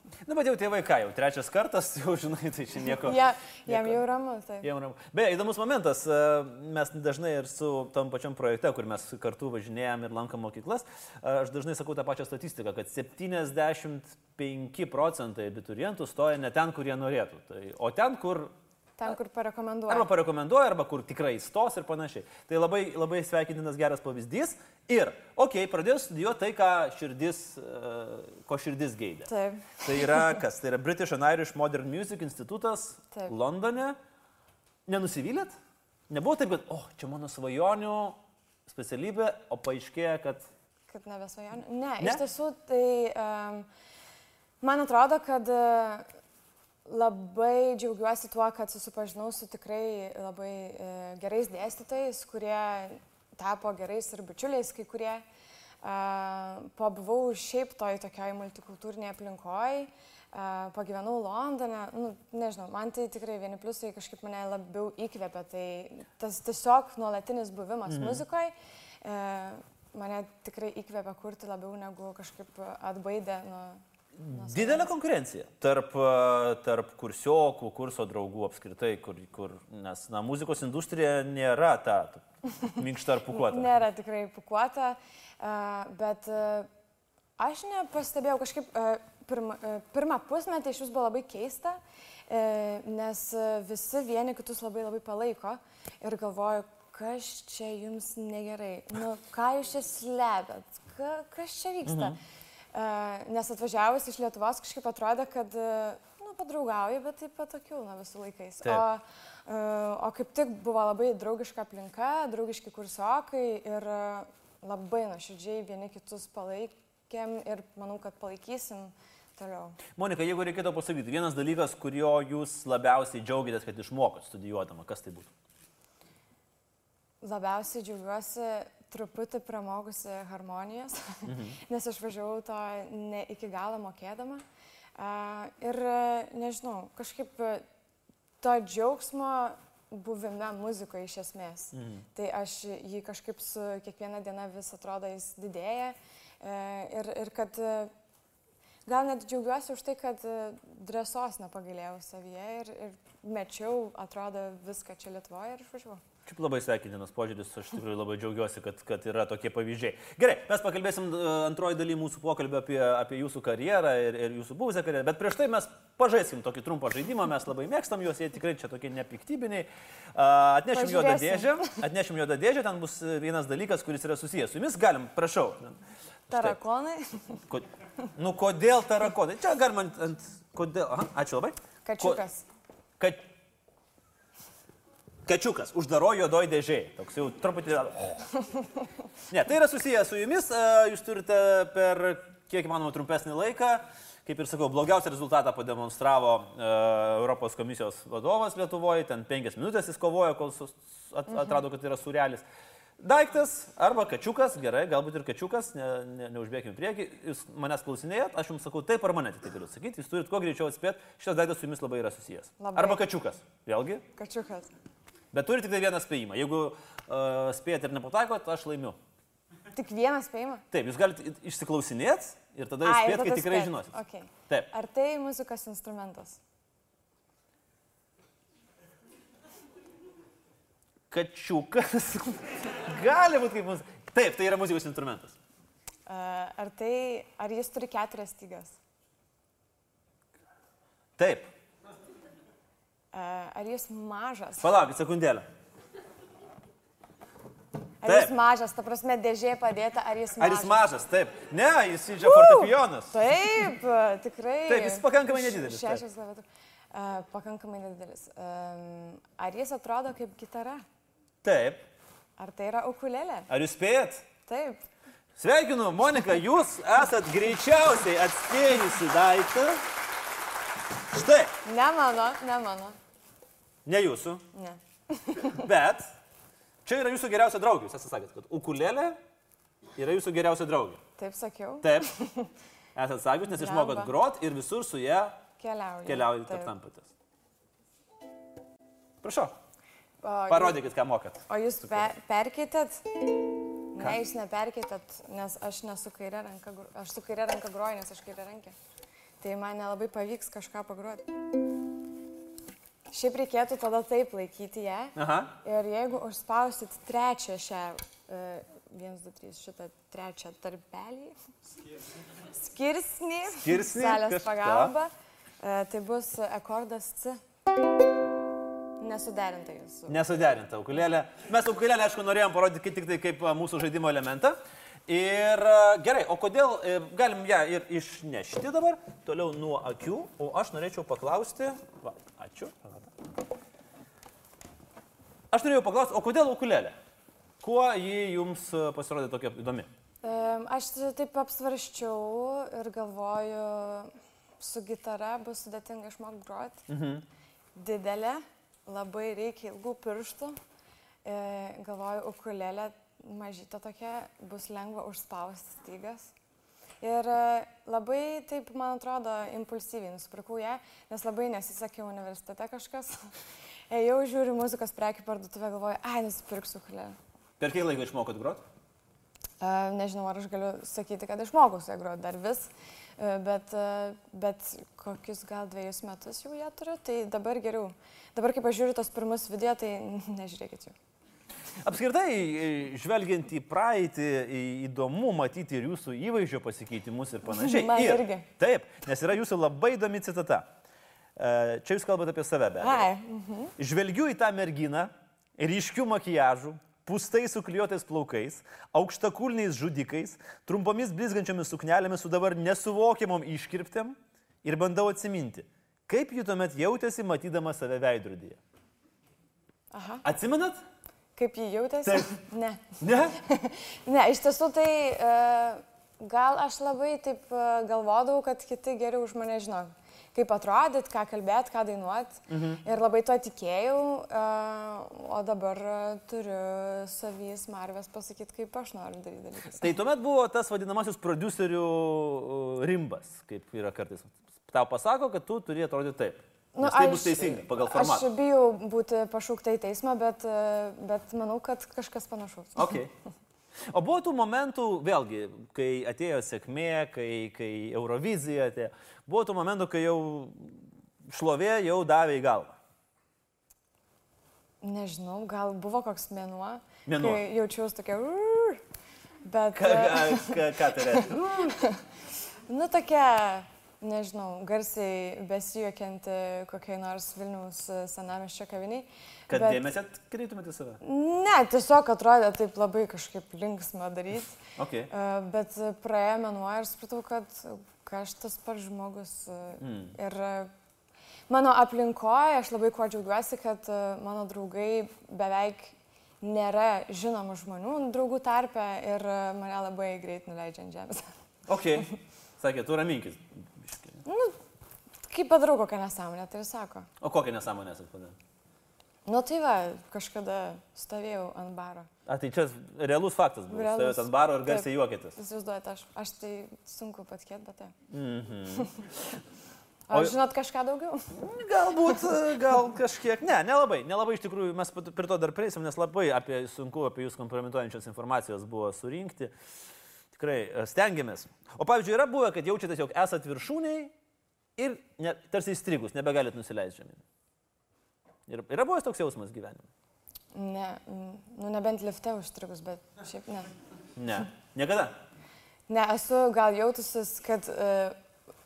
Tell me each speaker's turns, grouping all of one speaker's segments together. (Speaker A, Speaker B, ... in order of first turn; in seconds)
Speaker A: 0.2-4.0, 4.6-18.5, 19.9-29.3, 29.8-34.0, 34.9-35.5, 36.1-40.5, 67.9-68.2, 74.2-83.7, 101.8-102.2, 120.0-125.3, 131.2-131.6, 141.7-142.0, 156.2-175.8, 176.3-176.6, 177.5-182.2, 183.0-183.2, 185.2-188.3, 189.3-202.4, 203.0-214.0, 215.3-219.0, 220.7-223.9, 231.1-235.3, 241.2-241.5, 244.6-245.4, 248.1-248.3, 250.4-253.1, 254.7-256.0, 261.4-261.8, 263.5-264.2, 265.4-269.8, 271.1-271.5, 273.8-274.4, 275.4-276.1, 276.8-279.2, 279.9-281.0, 281.8-282.1, 282.9-285.4, 286.0-287.1, 289.2-289.5, 290.5-292.1, 305.1-305.5, 313.5-314.9, 320.1-324.6, 325.1-333.1, 335.5-336.9, 337.6-339.9, 346.9-347.2, 367.6-368.6, 381.8-390.7, 391.4-393.1, 393.8-408.6, 410.2-410.8, 413.0-413.4, 422.5-422.8, 429.7-438.3, 442.8-443.1, 443.9-452.8, 457.1-457.4, 459.7-461.8, 469.5-471.0, 474.8-475.1, 479.8-480.1, 491.7-494.2, 497.2-498.4, 502.2-505.4, 508.1-509.4, 511.3-519.5, 520.3-524.1, 524.8-527.2, 528.5-529.9, 534.1-535.1
Speaker B: 2.9-4.7, 19.0-20.1, 29.3-30.4, 40.9-43.7, 44.6-46.0, 46.9-55.2, 55.8-74.9, 83.3-86.7, 87.4-102.2, 102.7-119.8, 127.2-134.4, 135.0-137.6, 138.4-147.9, 148.8-156.0, 170.7-171.8, 176.3-177.4, 181.8-182.4, 212.6-213.0, 214.1-214.7, 219.7-220.6, 222.8-226.4, 236.1-238.8, 243.1-244.7, 248.0-250.8, 252.2-260.8, 262.4-263.5, 264.5-264.8, 271.6-272.9, 274.5-275.7, 281.2-282.5, 283.6-284.1, 285.6-286.7, 290.2-290.8, 291.5-293.3, 293.9-298.7, 299.4-301.3, 303.1-311.3, 312.5-317.4, 319.0-320.3, 340.2-346.9, 347.8-350.6, 351.2-356.3, 357.0-363.3, 363.9-367.1, 369.6-380.9, 387.5-388.5, 392.8-393.7, 409.9-410.2, 411.4-430.0, 436.7-442.9, 454.8-458.8, 459.4-462.0, 462.7-469.8, 471.0-474.6, 475.1-480.7, 481.5-491.2, 494.2-494.5, 495.2-497.1, 499.2-502.1, 503.7-507.9, 510.1-511.4, 530.5-533.7, 535.9-538.1